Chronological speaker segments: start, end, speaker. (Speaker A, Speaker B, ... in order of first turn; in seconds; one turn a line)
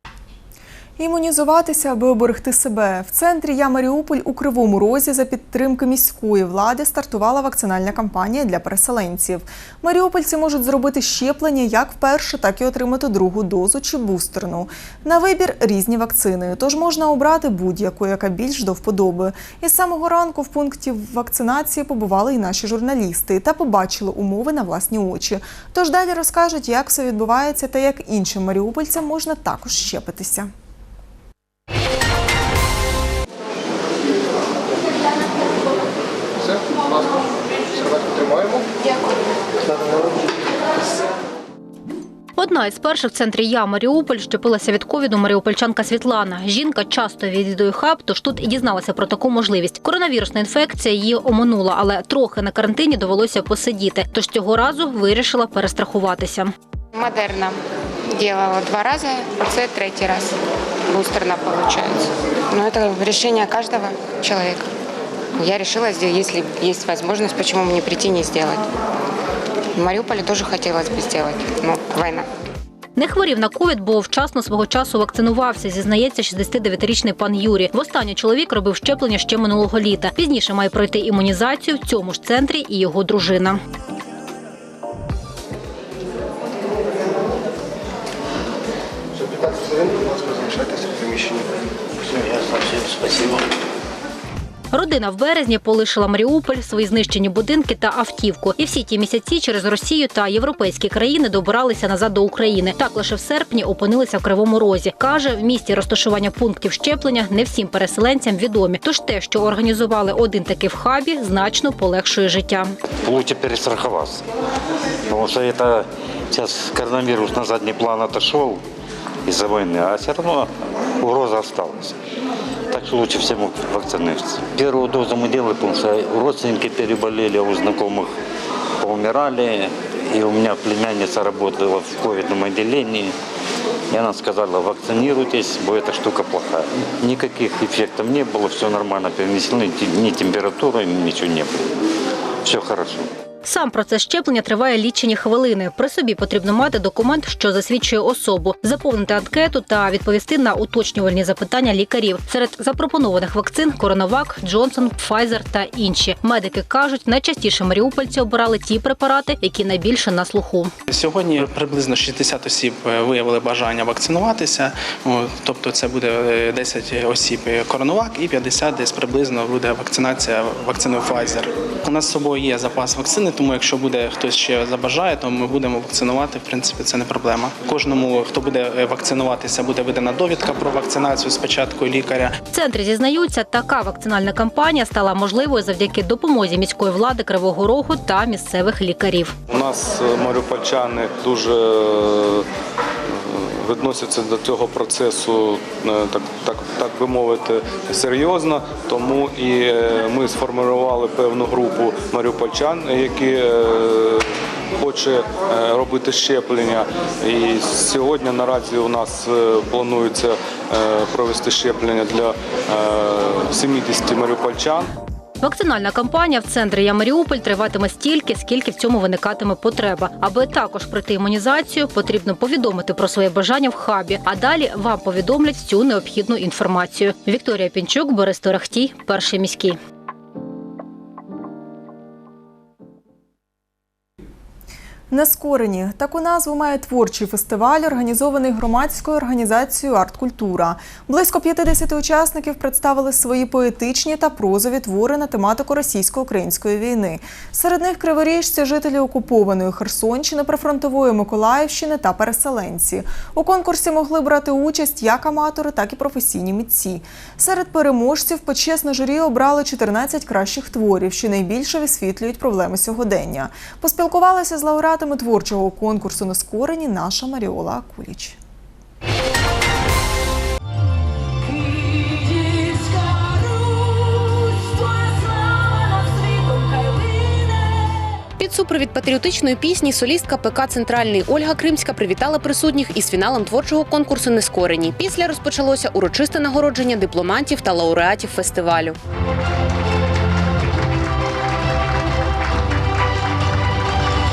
Speaker A: 1.0-30.5
Speaker B: 42.4-56.5
Speaker C: 56.9-57.6
Speaker C: 58.1-60.3
Speaker C: 60.9-64.7
Speaker C: 65.3-68.7
Speaker C: 69.7-72.2
Speaker B: 73.0-83.6
Speaker D: 92.1-93.3
Speaker B: 94.7-112.7
Speaker D: 113.0-114.2
Speaker D: 115.1-118.6
Speaker D: 119.2-122.0
Speaker D: 122.7-128.1
Speaker D: 128.8-133.1
Speaker D: 133.9-141.6
Speaker D: 142.4-143.1
Speaker B: 143.4-160.7
Speaker E: 160.9-182.3
Speaker B: 182.5-189.3
Speaker F: 189.5-192.5
Speaker F: 193.1-204.2
Speaker F: 204.8-214.9
Speaker B: 215.4-229.8
Speaker A: 235.1-268.4
Speaker G: 278.4-288.9